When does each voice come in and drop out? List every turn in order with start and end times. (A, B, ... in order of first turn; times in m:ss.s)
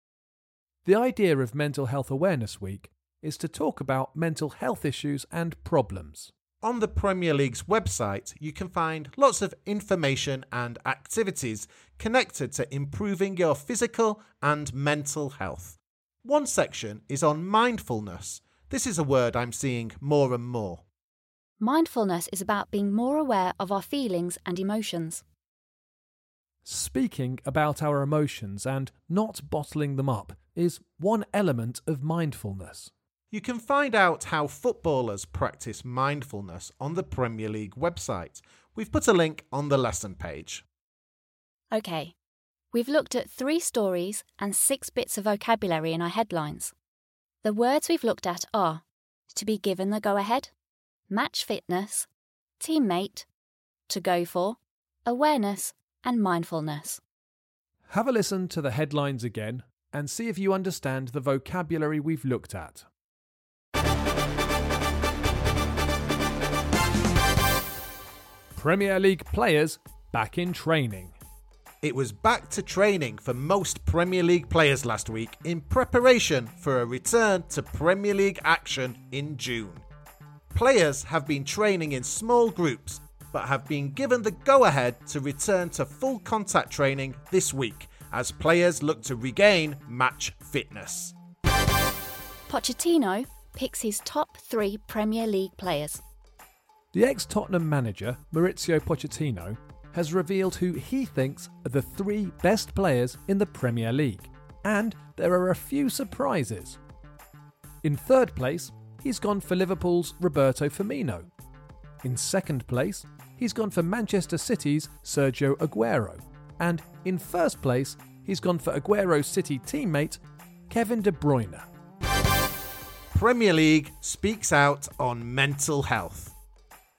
0:00.8-0:06.3 A
0:06.6-0:20.8 B
0:21.6-0:25.2 C
0:26.6-0:32.9 A
0:33.3-0:40.6 B
0:41.7-0:42.2 C
0:42.7-0:46.7 C
0:47.4-0:50.5 C
0:51.1-0:52.1 C
0:52.6-0:53.3 C
0:53.9-0:57.0 C
0:57.9-1:02.9 A
1:08.6-1:11.1 A
1:11.8-1:19.8 B
1:20.5-1:31.1 B
1:32.5-1:36.0 C
1:36.9-1:46.8 A
1:47.8-1:51.3 A
1:52.0-2:01.7 A
2:03.1-2:06.4 B